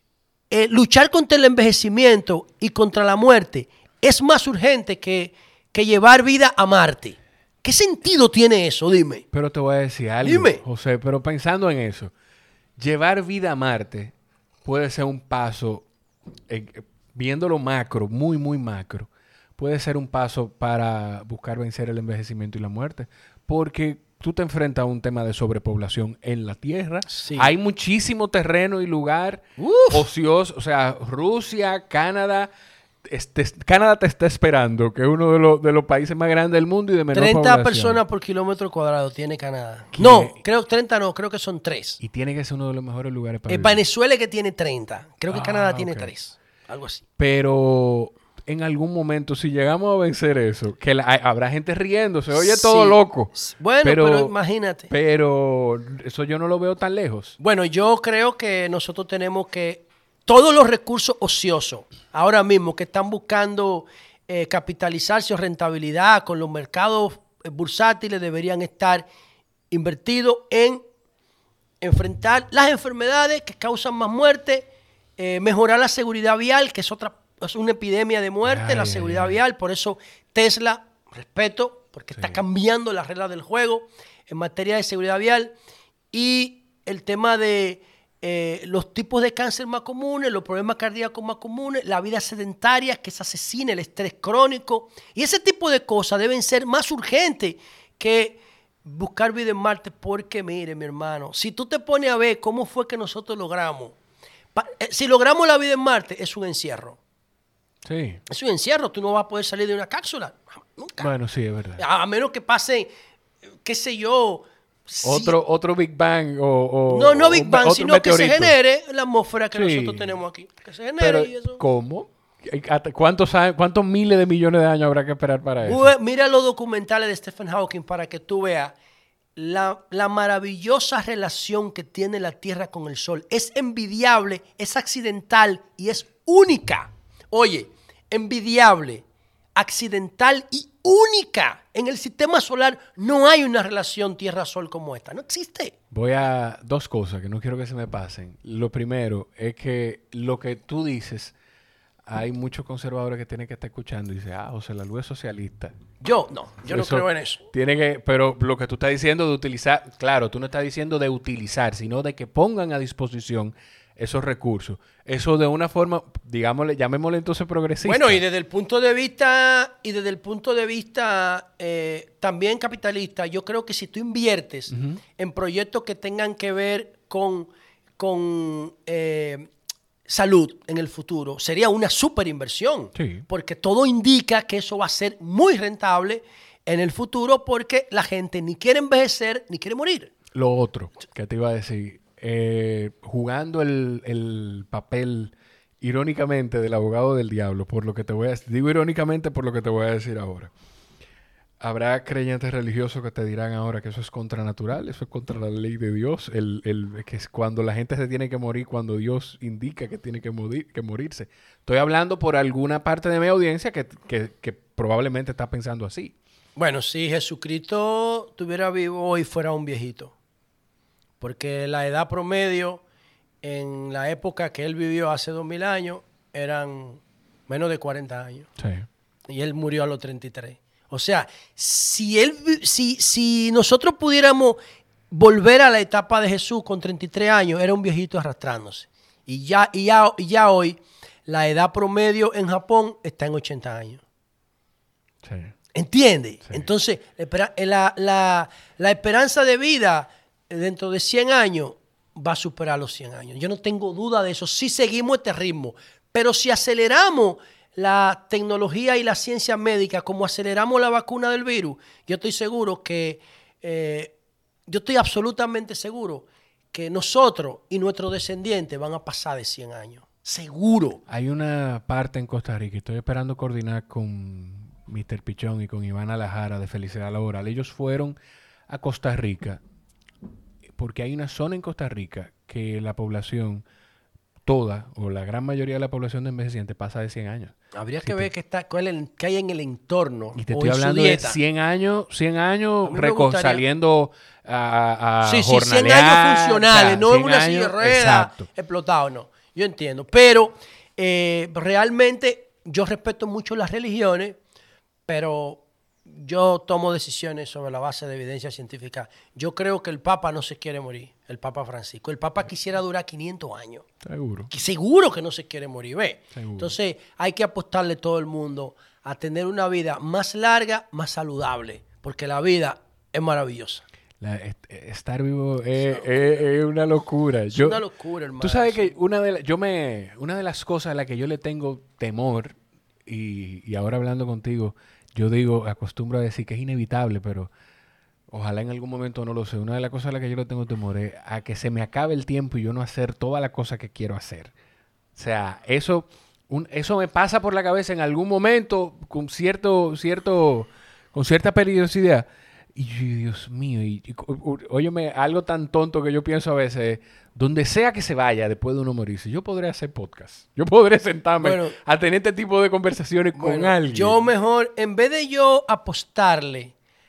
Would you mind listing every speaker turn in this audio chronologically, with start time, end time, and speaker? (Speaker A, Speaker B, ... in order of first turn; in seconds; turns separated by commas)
Speaker A: 0.5-9.2, Speaker B: 9.3-12.1, Speaker A: 10.2-10.6, Speaker B: 12.8-14.1, Speaker B: 14.7-15.9, Speaker B: 16.5-32.5, Speaker A: 27.1-27.5, Speaker A: 29.6-30.1, Speaker B: 33.1-38.0, Speaker A: 37.1-42.0, Speaker B: 39.9-40.4, Speaker B: 42.0-43.8, Speaker A: 43.5-47.0, Speaker B: 45.3-46.1, Speaker B: 47.2-54.3, Speaker A: 52.3-54.9, Speaker B: 54.9-57.4, Speaker A: 57.4-69.1, Speaker A: 69.7-70.8, Speaker A: 71.8-85.5, Speaker B: 78.4-79.4, Speaker B: 82.2-82.4, Speaker A: 86.1-104.0, Speaker A: 104.5-107.0, Speaker B: 107.8-108.2, Speaker A: 108.3-111.1, Speaker B: 111.0-111.8, Speaker A: 111.8-112.9, Speaker A: 113.6-115.4, Speaker B: 115.0-118.5, Speaker A: 116.9-121.6, Speaker B: 119.5-120.2, Speaker B: 121.0-125.9, Speaker A: 125.6-128.7, Speaker A: 129.4-139.0, Speaker A: 139.6-145.8, Speaker B: 145.9-151.3, Speaker B: 152.1-155.8, Speaker A: 156.0-157.4, Speaker B: 156.7-168.2, Speaker A: 167.8-179.5, Speaker B: 174.7-175.0, Speaker A: 180.1-190.1, Speaker B: 183.0-183.2, Speaker B: 190.3-200.5, Speaker B: 201.6-216.2, Speaker A: 216.6-220.1, Speaker A: 221.2-222.8, Speaker A: 223.4-228.5, Speaker B: 228.6-228.9, Speaker A: 229.3-234.6, Speaker A: 235.1-244.0, Speaker B: 245.2-245.5, Speaker A: 245.7-264.1, Speaker A: 264.7-271.0, Speaker B: 271.1-278.1, Speaker B: 278.7-279.6, Speaker B: 280.8-283.6, Speaker B: 284.4-288.3, Speaker A: 287.7-291.4, Speaker B: 290.4-298.5, Speaker A: 292.9-293.6, Speaker A: 295.2-304.4, Speaker A: 305.1-313.9, Speaker B: 314.0-314.5, Speaker A: 314.5-323.8, Speaker B: 316.3-316.7, Speaker B: 324.2-327.8, Speaker A: 327.5-329.0, Speaker B: 328.4-337.5, Speaker B: 338.3-344.5, Speaker B: 345.1-364.2, Speaker A: 361.4-361.8, Speaker A: 363.4-366.7